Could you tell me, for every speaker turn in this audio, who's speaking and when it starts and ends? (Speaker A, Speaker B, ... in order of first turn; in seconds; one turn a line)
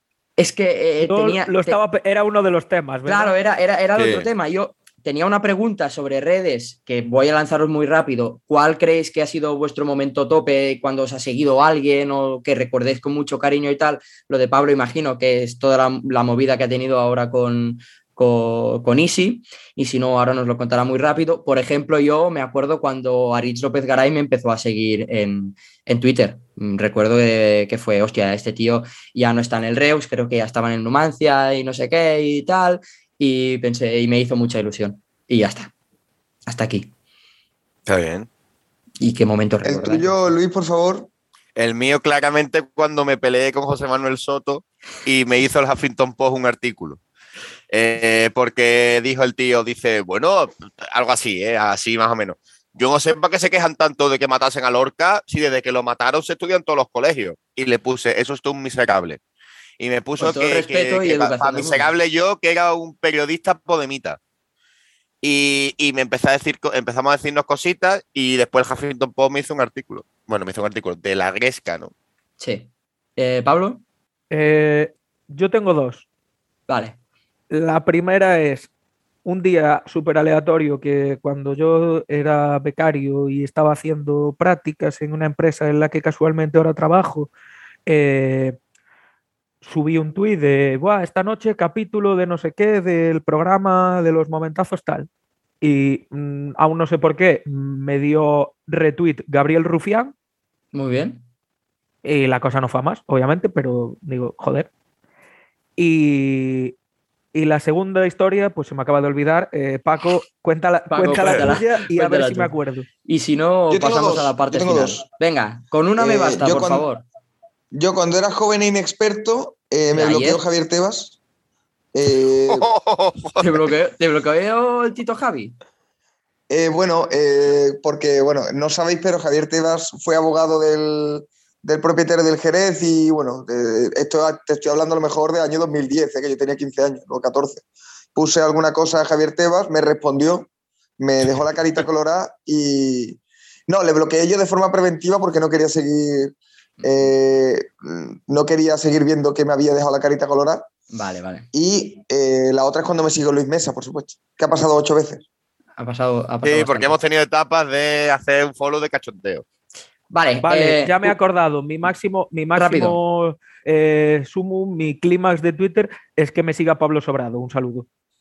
Speaker A: 0.4-1.8
Speaker B: 1.0-3.3
Speaker A: 3.1-35.7
Speaker C: 4.0-4.3
Speaker A: 36.5-36.9
Speaker C: 37.9-38.3
Speaker A: 39.0-40.3
Speaker D: 39.6-41.1
Speaker C: 41.6-47.0
Speaker C: 47.7-59.2
Speaker C: 59.8-64.2
Speaker A: 60.2-61.9
Speaker C: 65.2-71.9
Speaker A: 72.4-73.8
Speaker B: 74.3-76.1
Speaker A: 76.7-77.0
Speaker B: 77.5-78.7
Speaker B: 79.2-87.3
Speaker B: 87.9-88.6
Speaker B: 89.6-95.1
Speaker B: 95.6-100.1
Speaker A: 100.7-101.2
Speaker B: 102.0-104.7
Speaker B: 105.8-106.7
Speaker B: 107.3-112.9
Speaker A: 110.9-112.5
Speaker A: 113.0-117.0
Speaker D: 113.7-115.0
Speaker D: 116.0-116.9
Speaker D: 117.7-121.2
Speaker A: 119.9-120.4
Speaker D: 121.9-122.7
Speaker C: 122.5-123.6
Speaker A: 123.4-125.5
Speaker D: 126.5-150.7
Speaker A: 146.8-147.1
Speaker A: 150.9-151.5
Speaker D: 151.5-155.2
Speaker A: 155.8-157.0
Speaker C: 156.4-159.4
Speaker A: 160.1-161.2
Speaker B: 160.4-167.8
Speaker A: 162.5-163.0